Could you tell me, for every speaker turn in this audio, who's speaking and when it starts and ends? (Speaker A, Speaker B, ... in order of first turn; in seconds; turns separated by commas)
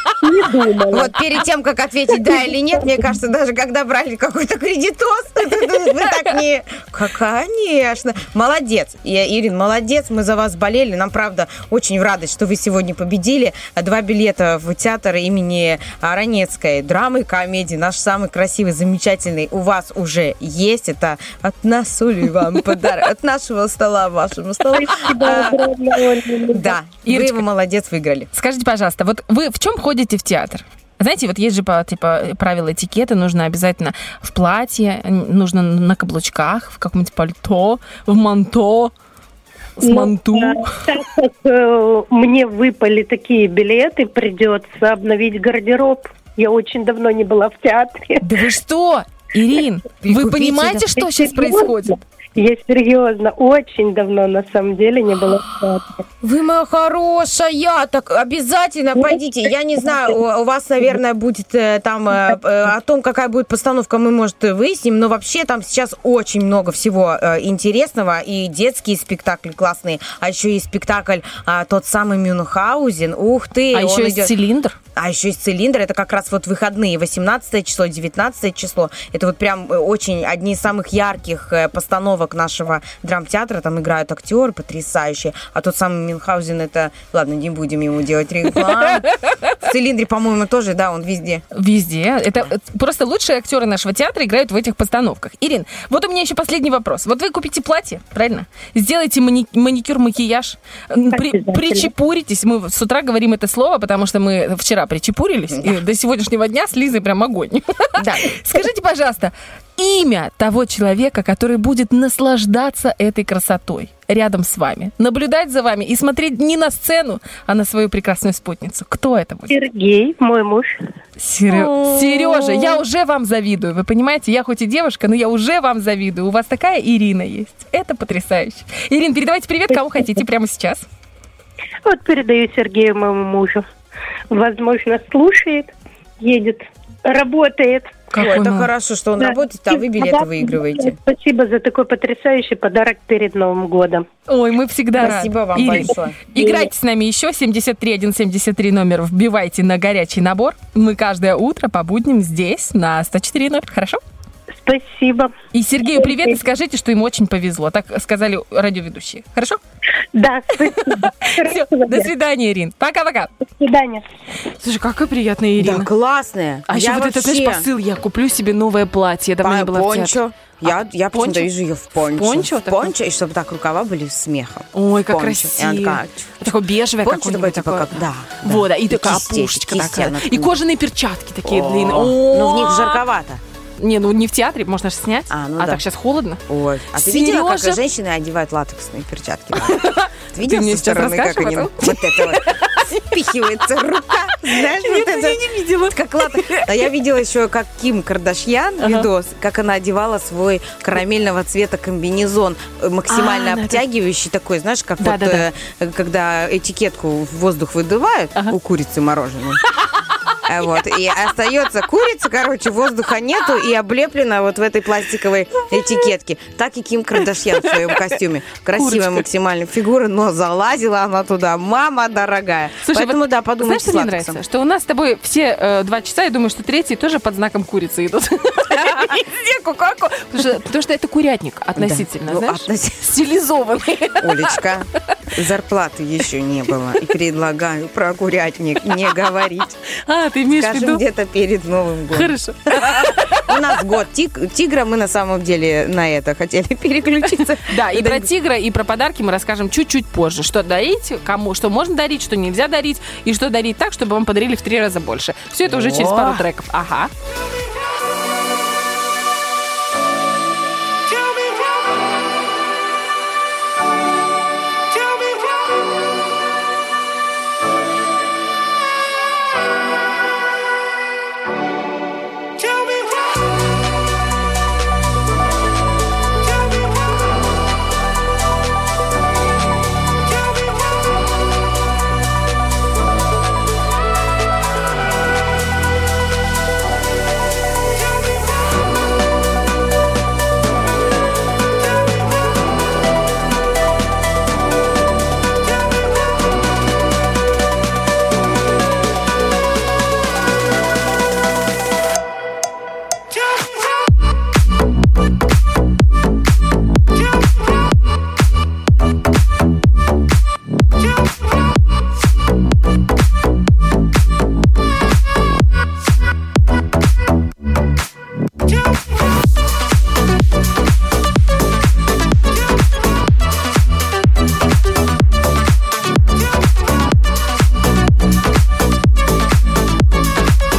Speaker A: 0.2-1.1, Speaker B: 0.9-25.6, Speaker C: 6.0-6.3, Speaker A: 24.7-26.8, Speaker B: 26.5-28.3, Speaker C: 27.1-27.4, Speaker C: 28.3-38.9, Speaker C: 39.8-40.8, Speaker A: 39.8-48.2, Speaker C: 48.2-52.0, Speaker B: 50.0-51.0, Speaker A: 51.1-56.0, Speaker B: 56.2-74.3, Speaker C: 73.7-74.8, Speaker B: 75.0-91.4, Speaker C: 91.5-119.6, Speaker A: 101.2-101.9, Speaker B: 105.5-105.8, Speaker B: 108.0-108.3, Speaker A: 119.5-120.8, Speaker C: 121.2-130.9, Speaker A: 131.8-133.6, Speaker A: 134.3-138.1, Speaker C: 138.1-138.7, Speaker B: 138.2-141.0, Speaker A: 139.2-144.1, Speaker C: 144.3-154.0, Speaker B: 145.0-146.2, Speaker A: 146.4-146.7, Speaker A: 154.6-155.3, Speaker C: 155.5-159.6, Speaker A: 156.0-156.3, Speaker A: 160.2-162.1, Speaker C: 160.7-163.3, Speaker A: 163.5-164.0, Speaker C: 164.6-165.9, Speaker B: 165.6-167.7, Speaker C: 166.7-172.9, Speaker B: 169.4-176.5, Speaker C: 174.7-183.0, Speaker B: 177.0-180.6, Speaker B: 181.4-183.4, Speaker C: 183.8-186.4, Speaker B: 185.3-185.8, Speaker B: 186.5-209.6, Speaker C: 186.9-187.8, Speaker C: 189.7-192.8, Speaker C: 194.5-196.9, Speaker C: 198.8-199.1, Speaker C: 203.1-203.8, Speaker C: 205.0-205.5, Speaker B: 210.4-224.4, Speaker C: 218.8-219.2, Speaker C: 222.8-234.6, Speaker B: 231.8-233.0, Speaker B: 234.2-239.8, Speaker C: 240.1-241.0, Speaker B: 240.5-248.3, Speaker C: 242.1-243.6, Speaker C: 247.6-257.1, Speaker B: 255.7-256.4